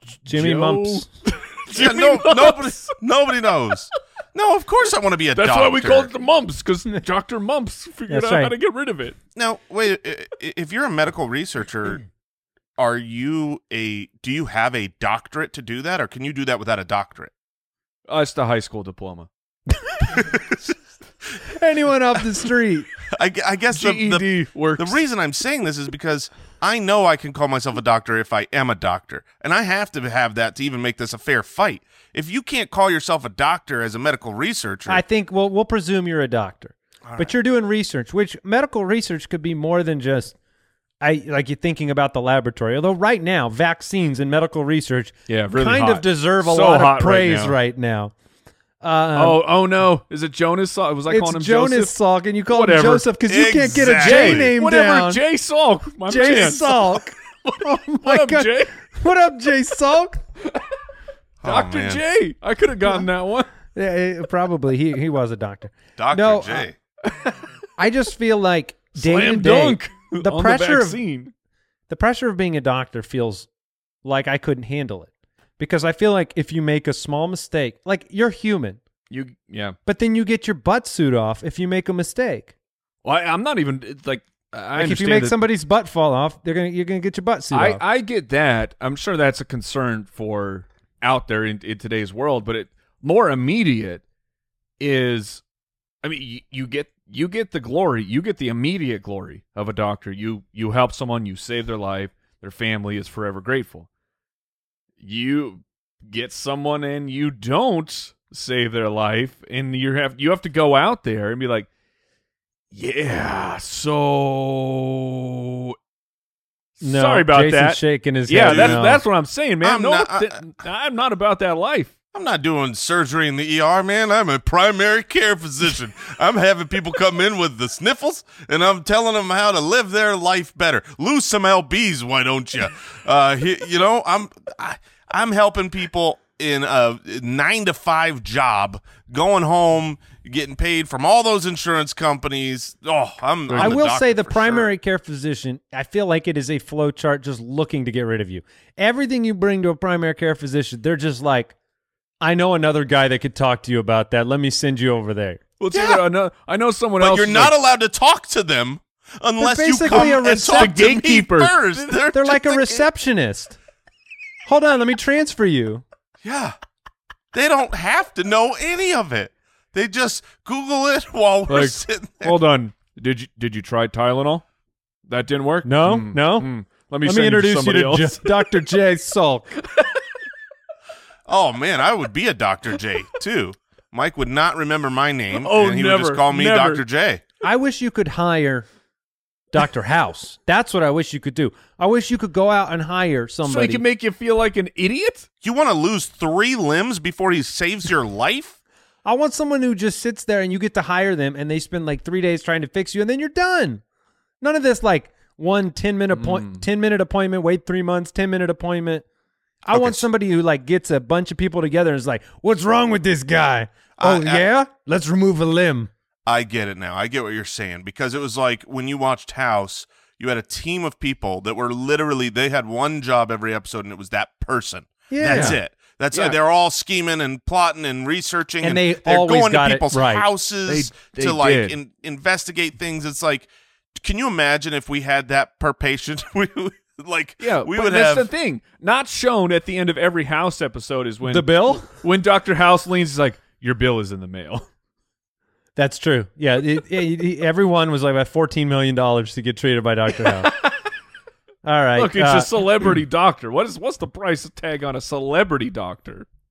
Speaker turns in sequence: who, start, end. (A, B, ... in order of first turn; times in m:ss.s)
0:00.3-0:01.1 A
0:00.3-0:03.0 B
0:01.8-0:06.1 C
0:05.4-0:09.2 B
0:08.1-0:08.5 A
0:09.4-0:12.0 C
0:12.8-0:17.3 C
0:18.1-0:19.3 B
0:20.1-0:20.6 C
0:21.5-0:22.9 A
0:23.1-0:24.3 C
0:23.7-0:25.0 B
0:24.8-0:35.0 C
0:34.9-0:40.4 A
0:37.1-0:37.3 C
0:41.0-0:48.1 A
0:45.3-0:47.6 B
0:48.8-0:49.4 A
0:49.2-0:52.0 B
0:51.1-0:55.2 A
0:52.5-0:53.1 B
0:53.3-0:54.5 C
0:54.0-0:58.8 B
0:56.1-1:00.2 A
1:01.4-1:02.0 C
1:01.4-1:03.5 B
1:03.7-1:06.7 A
1:06.0-1:06.8 C
1:07.1-1:07.4 B
1:07.8-1:11.0 A
1:09.0-1:11.3 B
1:11.9-1:13.5 A
1:14.0-1:18.8 A
1:19.1-1:19.8 B
1:19.9-1:22.5 A
1:23.0-1:25.4 B
1:24.8-1:27.8 A
1:27.5-1:34.0 B
1:34.8-1:35.4 B
1:36.0-1:43.9 B
1:45.0-1:51.7 B
1:52.7-1:55.8 B
1:56.8-2:02.0 B
1:56.8-1:59.0 A
1:58.4-1:59.0 C
1:59.6-2:00.3 C
2:02.1-2:24.7 C
2:23.5-2:23.8 B
2:23.6-2:31.5 A
2:32.2-2:35.4 A
2:35.6-2:37.7 B
2:35.7-2:36.0 C
2:37.0-2:42.9 C
2:39.4-2:40.8 A
2:39.9-2:42.0 B
2:42.1-2:43.6 A
2:44.5-2:45.8 A
2:46.2-2:46.6 C
2:47.3-2:52.4 C
2:51.5-2:54.4 B
2:55.1-2:58.4 B
2:55.6-2:56.5 A
2:57.0-2:59.5 A
3:01.3-3:07.2 C
3:05.3-3:06.8 B
3:07.4-3:08.7 A
3:09.5-3:13.8 A
3:13.4-3:15.3 B
3:15.4-3:18.6 C
3:19.0-3:23.8 A
3:24.4-3:29.0 A
3:26.1-3:26.6 B
3:29.7-3:30.1 C
3:29.7-3:35.9 A
3:34.0-3:34.4 C
3:36.3-3:58.3 C
3:45.1-3:45.6 A
3:45.3-3:45.6 B
3:46.1-3:46.4 B
3:48.6-3:50.3 A
3:50.7-3:51.8 B
3:57.4-4:04.6 B
4:01.3-4:01.9 A
4:05.8-4:10.5 A
4:11.6-4:12.5 A
4:12.0-4:16.3 B